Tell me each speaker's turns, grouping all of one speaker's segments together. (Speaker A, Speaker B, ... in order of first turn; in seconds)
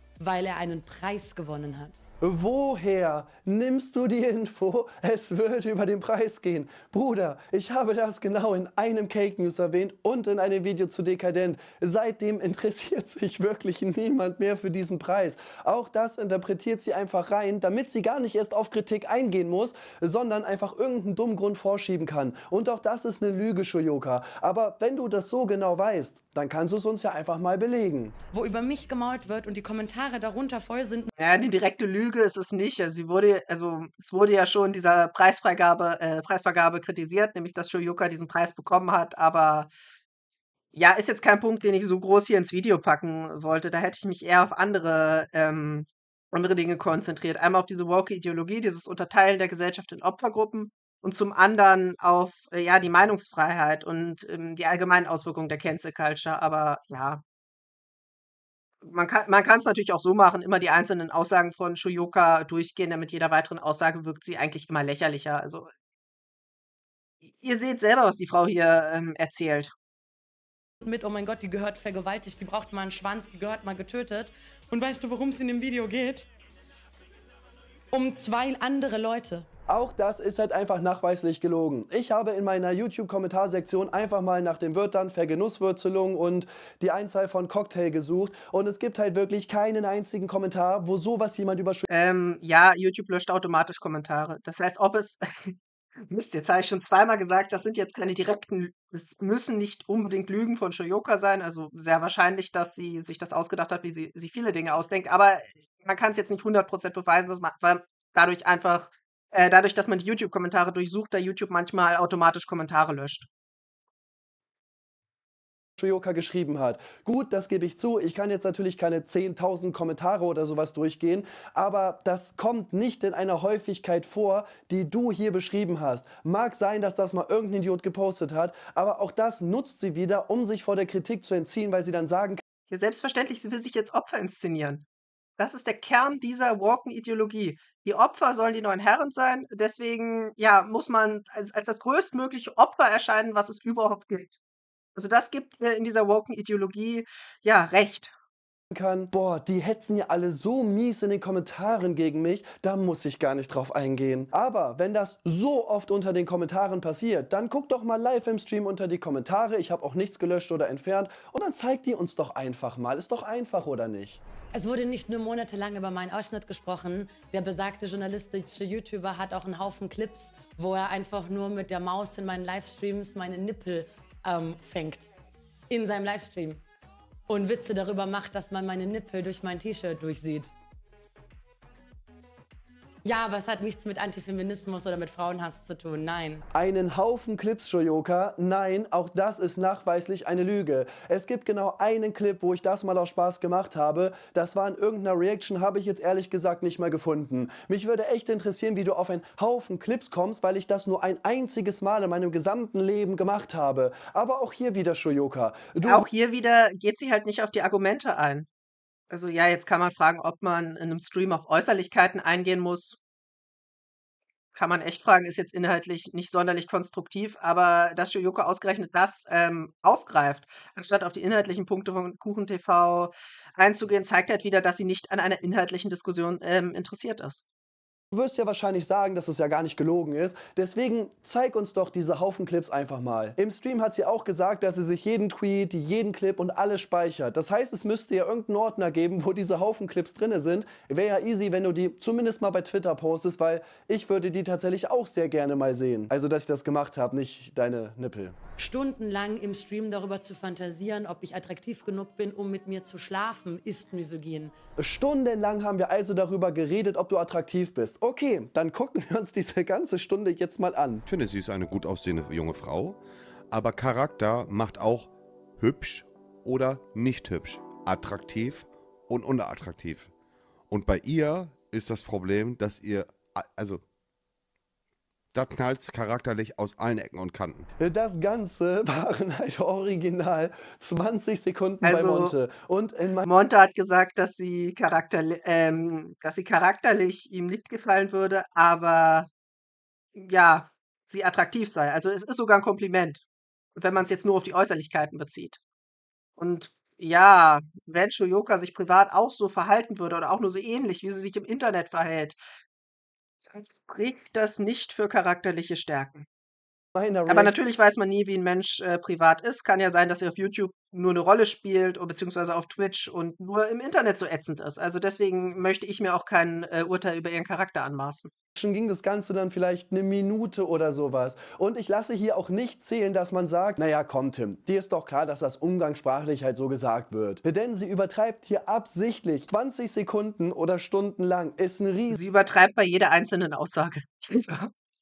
Speaker A: 0.2-2.0, 28.3-31.1, 70.8-76.3, 77.9-79.5, 164.5-175.1, 175.7-176.6, 177.3-180.5, 183.0-186.4, 248.6-254.5
Speaker B: 2.2-28.1, 79.7-91.9, 115.8-132.4, 148.7-164.2, 186.5-206.0, 228.1-248.3, 254.8-261.0, 277.8-283.3, 306.9-307.5, 318.6-332.2
Speaker C: 31.2-39.7, 40.7-57.2, 58.8-65.7, 67.2-69.7, 91.9-95.6, 96.1-113.3, 132.7-134.8, 135.4-144.4, 144.9-148.1, 205.8-208.5, 209.1-213.0, 214.5-227.4, 281.8-282.3, 283.2-289.3, 290.1-293.2, 293.8-295.6, 296.4-302.4, 303.5-306.2, 307.3-318.3, 332.1-334.7
Speaker D: 261.1-263.0, 263.5-270.1, 270.7-273.8, 275.3-277.7